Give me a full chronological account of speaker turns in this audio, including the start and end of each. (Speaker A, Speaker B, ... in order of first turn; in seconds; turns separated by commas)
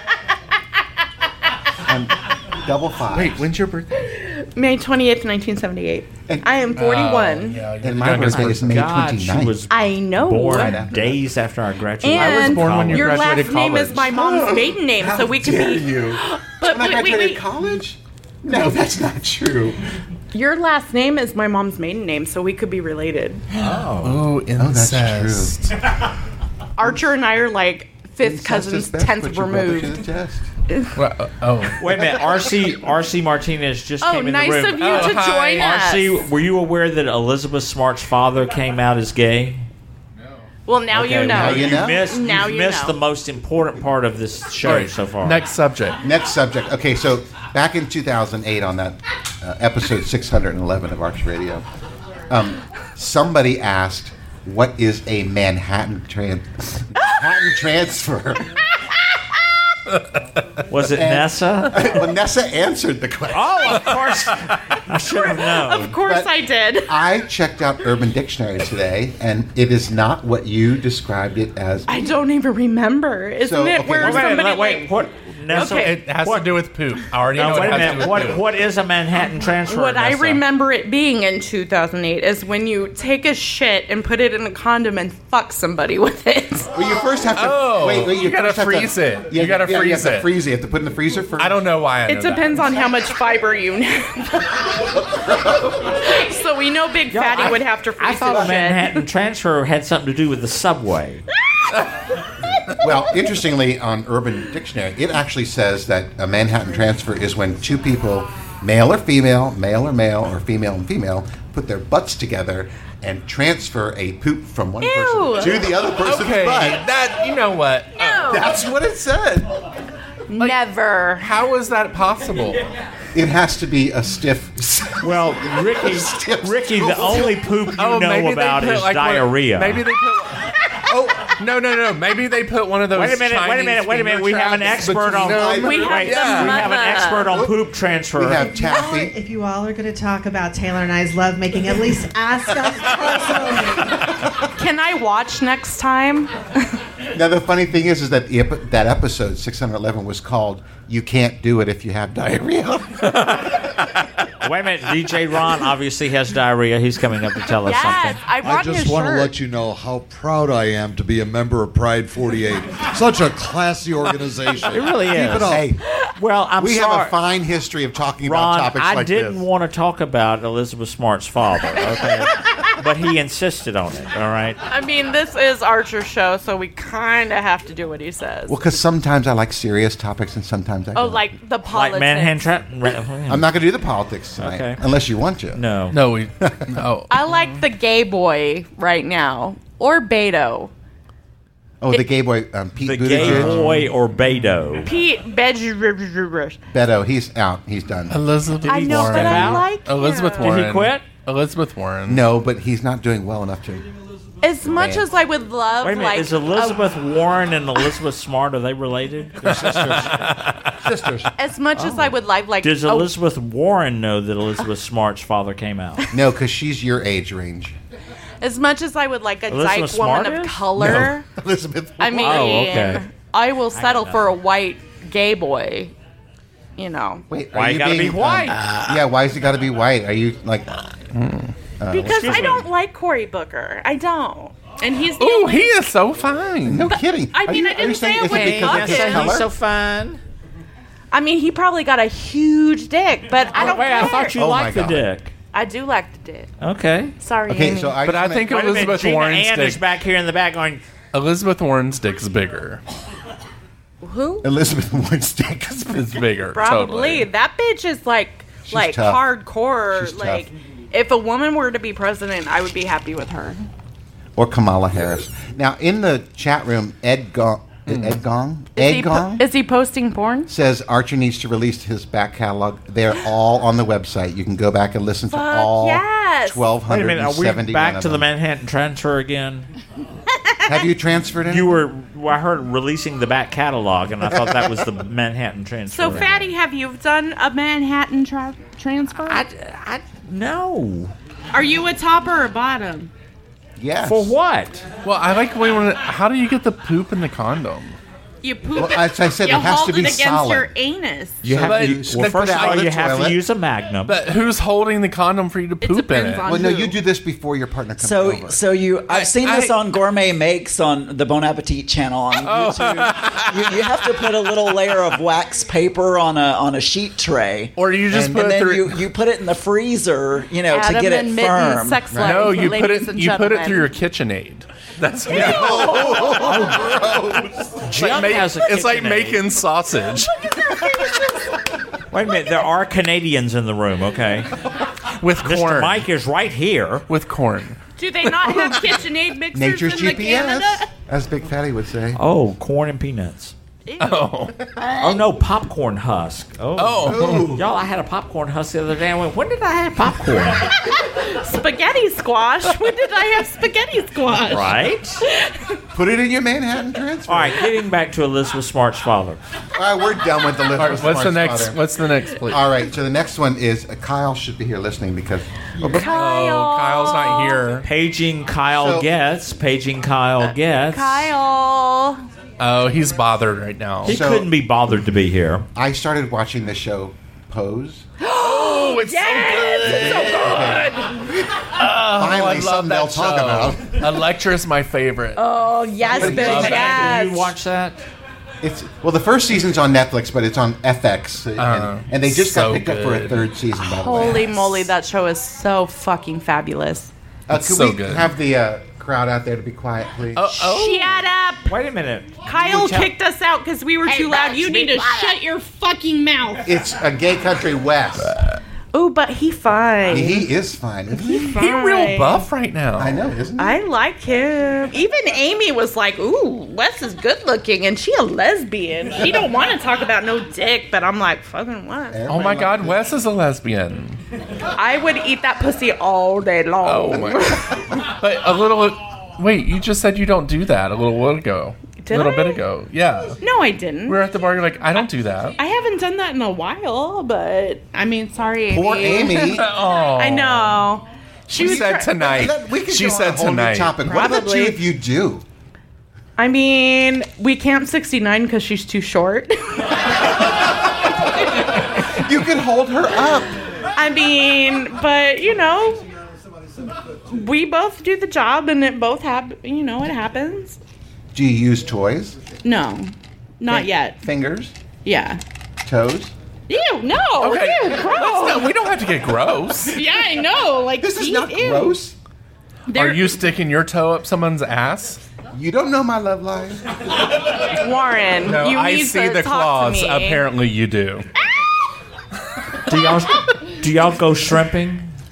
Speaker A: 1.9-3.4, Speaker B: 3.1-3.9, Speaker C: 4.1-7.7, Speaker B: 6.8-8.8, Speaker A: 7.8-9.6, Speaker D: 8.2-13.3, Speaker C: 9.7-10.8, Speaker A: 10.4-11.2, Speaker C: 12.0-17.4, Speaker B: 12.1-14.1, Speaker A: 14.1-19.8, Speaker C: 20.3-23.4, Speaker D: 23.5-24.2, Speaker B: 24.0-25.6, Speaker A: 24.6-25.6, Speaker C: 26.8-30.0, Speaker A: 28.2-30.5, Speaker B: 30.9-31.8, Speaker D: 31.8-39.6, Speaker C: 34.0-36.2, Speaker B: 34.8-35.8, Speaker C: 40.7-43.0, Speaker D: 40.9-45.4, Speaker A: 41.3-42.1, Speaker B: 44.6-46.0, Speaker A: 46.0-51.6, Speaker A: 52.3-58.6, Speaker D: 60.7-62.0, Speaker A: 60.9-63.9, Speaker D: 63.3-65.9, Speaker C: 65.1-66.9, Speaker A: 65.9-66.3, Speaker A: 66.8-72.0, Speaker C: 71.9-75.0, Speaker A: 73.4-74.4, Speaker D: 74.0-76.5, Speaker C: 75.5-76.0, Speaker B: 75.6-78.5, Speaker D: 77.3-80.4, Speaker C: 79.6-86.7, Speaker A: 86.7-91.6, Speaker B: 87.3-90.3, Speaker B: 91.4-92.6, Speaker C: 92.1-94.6, Speaker C: 95.8-99.0, Speaker D: 97.1-101.2, Speaker A: 102.7-116.8, Speaker C: 114.8-115.7, Speaker B: 116.0-118.4, Speaker C: 118.0-118.5, Speaker A: 118.3-119.5, Speaker C: 120.3-121.3, Speaker B: 121.2-122.6, Speaker A: 123.1-127.4, Speaker D: 125.0-129.8, Speaker B: 127.7-136.6, Speaker D: 132.9-138.5, Speaker C: 135.5-137.4, Speaker A: 138.2-139.1, Speaker E: 138.4-144.0, Speaker C: 144.6-146.3, Speaker A: 147.1-153.1, Speaker D: 154.4-158.2, Speaker C: 157.6-159.3, Speaker F: 158.4-165.7, Speaker D: 164.7-167.2, Speaker A: 165.3-165.8, Speaker A: 166.6-169.4, Speaker D: 168.2-174.6, Speaker C: 174.7-178.6, Speaker A: 178.5-181.3, Speaker C: 180.9-182.5, Speaker D: 181.7-183.5, Speaker A: 183.3-185.6, Speaker D: 184.4-184.8, Speaker D: 185.5-185.9, Speaker B: 185.9-187.6, Speaker A: 186.4-186.8, Speaker C: 187.1-190.7, Speaker A: 191.8-193.6, Speaker D: 192.8-194.9, Speaker B: 193.1-194.3, Speaker C: 194.8-196.6, Speaker A: 196.7-198.2, Speaker B: 198.1-202.3, Speaker D: 198.6-199.7, Speaker C: 198.7-200.6, Speaker D: 200.4-201.0, Speaker A: 202.1-203.9, Speaker C: 204.4-206.9, Speaker A: 204.6-205.1, Speaker D: 205.8-210.3, Speaker B: 209.4-210.4, Speaker C: 211.4-213.1, Speaker D: 211.8-212.1, Speaker D: 212.6-216.1, Speaker A: 216.1-217.7, Speaker C: 218.4-221.3, Speaker D: 219.5-221.1, Speaker A: 220.8-222.9, Speaker C: 222.0-225.9, Speaker D: 222.2-223.0, Speaker D: 223.7-224.4, Speaker C: 226.8-227.2, Speaker A: 227.3-230.9, Speaker D: 227.5-228.7, Speaker B: 231.1-231.5, Speaker A: 231.8-232.7, Speaker C: 231.9-235.8, Speaker D: 232.1-232.7, Speaker B: 235.2-236.9, Speaker A: 236.7-239.5, Speaker C: 236.9-239.4, Speaker D: 238.2-240.2, Speaker C: 241.1-244.3, Speaker D: 243.5-245.3, Speaker A: 243.9-245.1, Speaker C: 245.5-246.5, Speaker D: 246.6-247.1, Speaker C: 247.2-248.0, Speaker A: 247.5-248.5, Speaker B: 248.0-249.8, Speaker D: 248.5-250.8, Speaker B: 251.1-252.8, Speaker C: 254.0-254.5, Speaker A: 254.4-256.0, Speaker B: 255.9-257.3, Speaker C: 256.5-263.6, Speaker A: 258.7-259.2, Speaker A: 259.9-260.5, Speaker A: 264.4-269.5, Speaker B: 267.9-268.2, Speaker C: 268.8-270.5, Speaker A: 270.5-278.2, Speaker C: 275.3-276.6, Speaker D: 276.9-279.7, Speaker C: 280.4-280.8, Speaker A: 280.6-281.8, Speaker D: 281.5-286.5, Speaker A: 284.2-284.8, Speaker C: 285.9-289.4, Speaker D: 289.2-291.1, Speaker C: 291.5-293.1, Speaker A: 293.8-294.3, Speaker D: 294.0-294.8, Speaker B: 295.0-298.0, Speaker C: 298.4-301.4, Speaker A: 298.7-300.7, Speaker D: 301.4-304.2, Speaker A: 301.4-303.4, Speaker B: 301.6-303.0, Speaker B: 304.1-306.5, Speaker C: 305.8-307.0, Speaker A: 306.4-308.6, Speaker G: 308.0-322.1, Speaker B: 309.1-309.8, Speaker B: 312.4-314.7, Speaker B: 317.8-319.0, Speaker A: 318.1-318.4, Speaker C: 320.7-323.9, Speaker A: 322.1-322.5, Speaker B: 322.2-327.2, Speaker A: 325.3-327.5, Speaker C: 325.4-326.2, Speaker D: 327.8-329.4, Speaker B: 327.9-330.3, Speaker D: 332.1-334.5, Speaker B: 335.2-336.0, Speaker D: 335.4-337.0, Speaker B: 337.1-337.8, Speaker C: 338.0-340.8, Speaker B: 338.4-338.8, Speaker A: 339.5-342.2, Speaker D: 342.1-343.5, Speaker C: 343.9-344.9, Speaker B: 344.0-344.5, Speaker D: 345.0-350.7, Speaker B: 346.8-347.6, Speaker A: 347.1-347.6, Speaker C: 351.0-354.8, Speaker D: 354.5-355.2, Speaker A: 355.9-357.7, Speaker D: 357.3-359.4, Speaker A: 359.7-361.8, Speaker B: 360.8-362.6, Speaker A: 362.5-365.7, Speaker B: 365.8-367.9, Speaker C: 365.8-367.8, Speaker D: 367.8-371.3, Speaker A: 368.7-369.1, Speaker C: 370.9-372.2, Speaker B: 372.6-374.2, Speaker D: 374.0-375.6, Speaker A: 374.0-374.5, Speaker A: 375.7-378.0, Speaker C: 378.2-381.1, Speaker B: 378.4-381.0, Speaker A: 379.8-380.9, Speaker B: 381.6-385.4, Speaker A: 382.2-384.0, Speaker C: 385.4-387.5, Speaker D: 386.1-388.0, Speaker B: 386.1-387.1, Speaker A: 386.2-386.8, Speaker A: 388.6-394.9, Speaker B: 391.6-393.5, Speaker C: 393.9-397.1, Speaker A: 397.5-400.5, Speaker B: 397.5-398.3, Speaker B: 400.3-401.2, Speaker C: 400.6-401.7, Speaker D: 401.7-403.1, Speaker C: 402.4-406.8, Speaker D: 404.1-405.2, Speaker A: 406.6-408.3, Speaker C: 408.9-410.5, Speaker A: 410.1-411.5, Speaker C: 411.2-412.4, Speaker B: 411.5-413.2, Speaker A: 413.0-413.8, Speaker C: 413.6-422.3, Speaker A: 422.1-423.0, Speaker B: 422.3-424.2, Speaker C: 424.7-427.7, Speaker B: 426.8-433.4, Speaker C: 432.0-432.6, Speaker C: 433.4-434.2, Speaker B: 434.1-435.6, Speaker C: 435.6-442.4, Speaker A: 438.7-439.7, Speaker B: 439.4-440.8, Speaker B: 441.5-444.0, Speaker A: 441.6-445.4, Speaker C: 444.0-444.8, Speaker C: 446.4-449.9, Speaker A: 452.1-453.6, Speaker C: 453.9-456.0, Speaker C: 457.3-460.8, Speaker A: 461.3-462.4, Speaker C: 462.6-464.2, Speaker A: 463.7-464.7, Speaker C: 465.0-465.4, Speaker A: 465.8-466.3, Speaker C: 466.7-468.8, Speaker B: 467.4-470.0, Speaker C: 469.9-472.0, Speaker A: 471.0-472.1, Speaker C: 472.9-473.4, Speaker B: 472.9-475.2, Speaker A: 475.5-476.9, Speaker C: 477.7-480.4, Speaker B: 478.4-481.2, Speaker D: 482.9-485.1